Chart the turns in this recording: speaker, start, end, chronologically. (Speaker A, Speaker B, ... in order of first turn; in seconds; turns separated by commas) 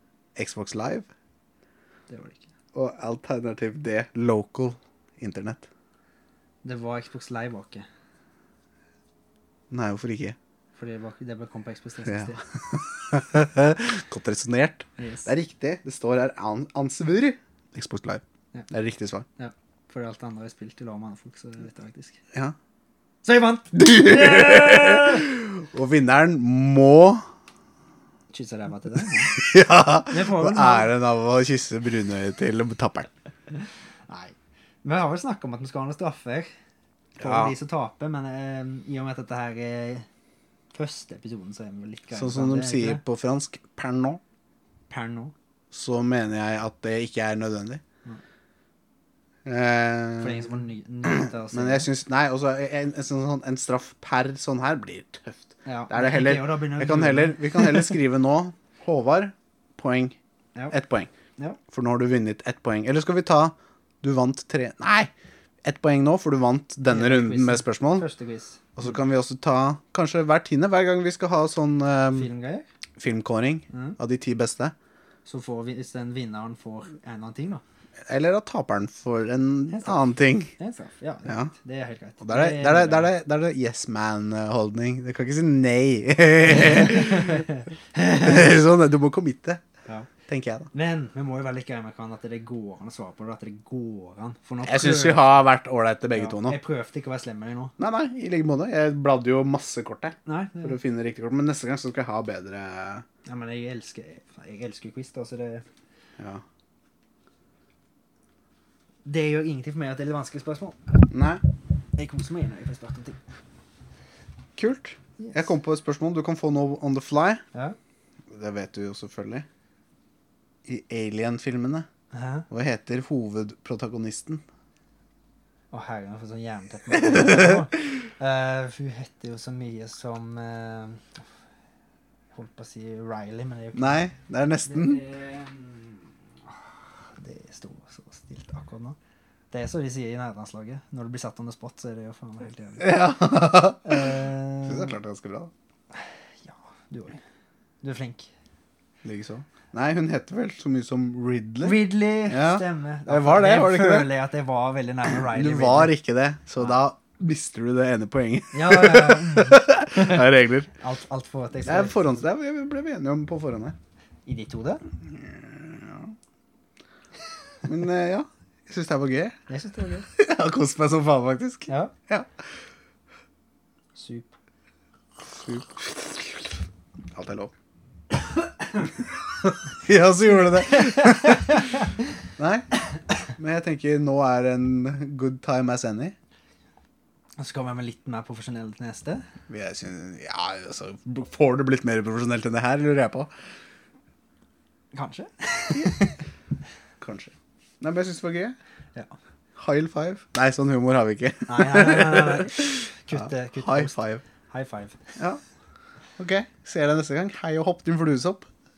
Speaker A: 0.3-1.1, Speaker B: 2.1-2.5, Speaker A: 2.7-5.7, Speaker B: 6.6-7.8, Speaker A: 9.7-10.3, Speaker B: 10.7-12.4, Speaker A: 12.1-19.2, Speaker B: 15.0-15.3, Speaker B: 19.4-22.2, Speaker B: 23.2-25.2, Speaker A: 23.7-27.2, Speaker B: 28.3-29.4, Speaker A: 29.3-33.1, Speaker B: 30.1-30.9, Speaker B: 34.1-36.5, Speaker A: 37.2-37.5, Speaker B: 37.2-40.0, Speaker B: 40.7-43.0, Speaker A: 42.1-44.2, Speaker B: 44.9-45.3, Speaker A: 45.7-47.8, Speaker A: 49.4-60.1, Speaker B: 50.2-51.9, Speaker B: 55.6-58.0, Speaker A: 60.7-61.1, Speaker A: 61.7-65.1, Speaker A: 65.6-68.1, Speaker B: 66.8-68.7, Speaker A: 68.8-72.3, Speaker B: 72.1-72.7, Speaker A: 73.0-74.7, Speaker B: 73.7-74.0, Speaker B: 75.2-77.6, Speaker A: 78.1-80.5, Speaker B: 79.7-83.1, Speaker A: 81.2-81.5, Speaker A: 82.2-89.6, Speaker B: 86.7-88.5, Speaker A: 90.3-90.7, Speaker B: 90.7-95.4, Speaker A: 94.6-96.6, Speaker B: 96.2-97.7, Speaker A: 97.8-103.0, Speaker B: 100.2-100.8, Speaker B: 103.2-105.6, Speaker B: 109.0-111.0, Speaker A: 111.1-111.4, Speaker B: 112.0-113.2, Speaker A: 114.5-117.4, Speaker A: 118.3-119.5, Speaker A: 120.6-121.9, Speaker B: 122.1-122.5, Speaker A: 122.5-124.4, Speaker B: 125.7-131.2, Speaker A: 126.9-127.7, Speaker B: 132.3-134.0, Speaker A: 133.8-135.0, Speaker B: 134.6-136.5, Speaker B: 137.2-139.0, Speaker B: 139.5-144.9, Speaker A: 142.8-145.5, Speaker B: 145.9-147.2, Speaker B: 147.8-148.3, Speaker A: 149.0-154.1, Speaker B: 151.6-155.9, Speaker A: 155.1-160.7, Speaker B: 158.5-162.2, Speaker A: 161.6-163.8, Speaker B: 164.2-164.8, Speaker A: 165.1-166.1, Speaker A: 167.6-169.3, Speaker B: 169.5-170.1, Speaker A: 170.2-172.3, Speaker B: 171.7-171.9, Speaker B: 173.9-174.3, Speaker A: 175.2-176.6, Speaker A: 177.1-177.5, Speaker A: 178.8-181.8, Speaker B: 180.7-181.8, Speaker A: 182.4-182.7, Speaker A: 183.4-186.1, Speaker B: 187.4-189.2, Speaker A: 189.5-193.3, Speaker B: 194.9-196.2, Speaker A: 197.0-198.6, Speaker A: 199.6-204.2, Speaker B: 201.4-203.9, Speaker B: 204.5-205.0, Speaker A: 206.2-208.5